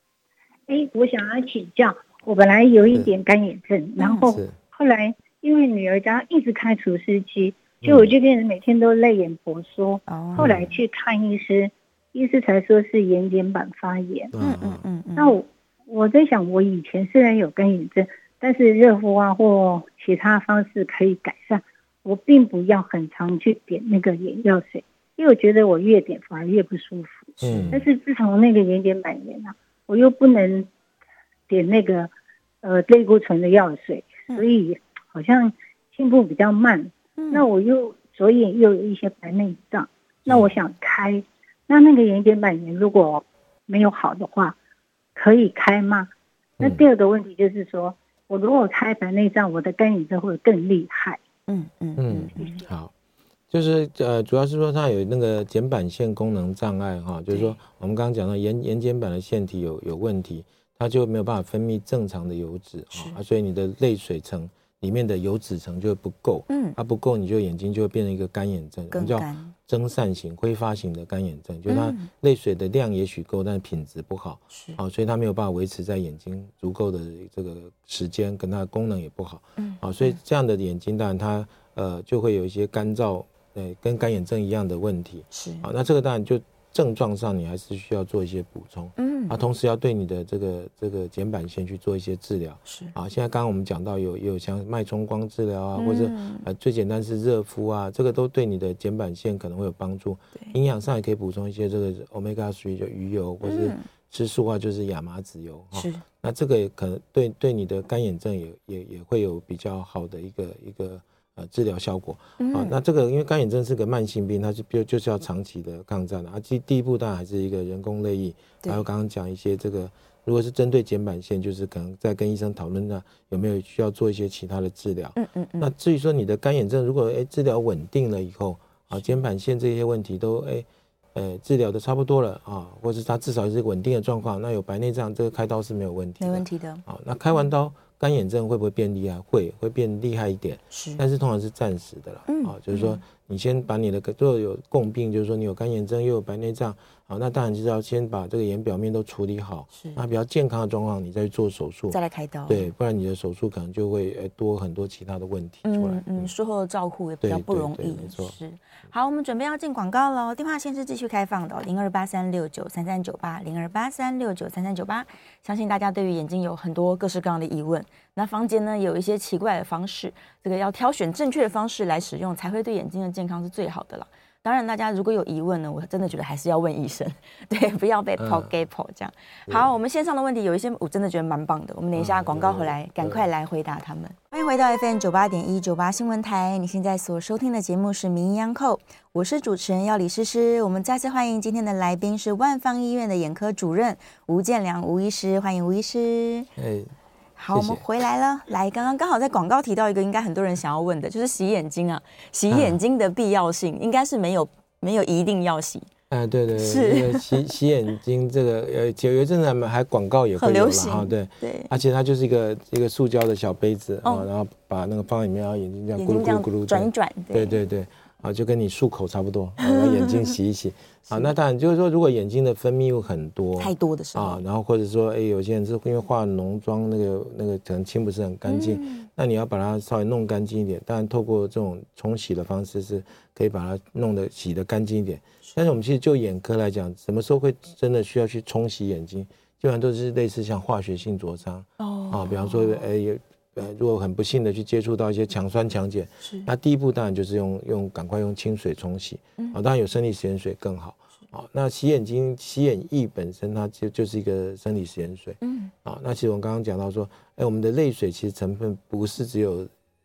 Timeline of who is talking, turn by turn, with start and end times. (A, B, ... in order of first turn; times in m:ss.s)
0:00.7-0:14.3 A
0:04.0-0:04.4 B
0:04.2-0:04.6 C
0:07.8-0:08.1 C
0:10.1-0:10.5 B
0:10.4-0:10.7 C
0:14.3-0:14.8 C
0:14.4-0:15.4 B
0:15.2-0:30.7 A
0:27.4-0:27.8 B
0:27.4-0:27.8 C
0:31.5-0:32.1 A
0:32.6-0:44.6 A
0:37.2-0:37.4 B
0:40.2-0:40.5 C
0:45.1-0:46.1 A
0:46.6-0:51.2 A
0:51.5-0:52.6 B
0:52.0-0:52.9 C
0:53.5-2:36.3 C
0:57.3-0:57.6 B
1:02.9-1:03.2 B
1:06.5-1:06.8 B
1:08.9-1:09.5 B
1:11.7-1:12.1 B
1:14.5-1:14.8 B
1:19.6-1:20.1 B
1:25.3-1:25.6 B
1:29.0-1:29.4 B
1:32.7-1:32.9 B
1:35.8-1:36.4 B
1:43.4-1:43.8 B
1:45.7-1:46.0 B
1:52.4-1:52.8 B
2:05.2-2:05.7 B
2:08.9-2:09.2 B
2:16.2-2:16.8 B
2:20.7-2:21.0 B
2:22.3-2:23.0 B
2:29.7-2:30.0 B
2:31.9-2:32.7 B
2:35.6-3:16.5 B
2:37.2-2:38.4 C
2:58.2-2:58.5 C
3:02.0-3:03.2 C
3:16.6-3:16.9 C
3:17.4-3:25.9 B
3:17.5-3:17.8 C
3:22.5-3:22.8 C
3:26.1-4:19.7 C
3:26.5-3:27.3 B
3:30.4-3:31.7 B
3:36.0-3:37.6 B
3:39.6-3:40.3 B
3:41.1-3:41.3 B
3:43.6-3:44.4 B
3:48.5-3:49.1 B
4:01.8-4:02.8 B
4:06.2-4:06.5 B
4:15.4-4:15.7 B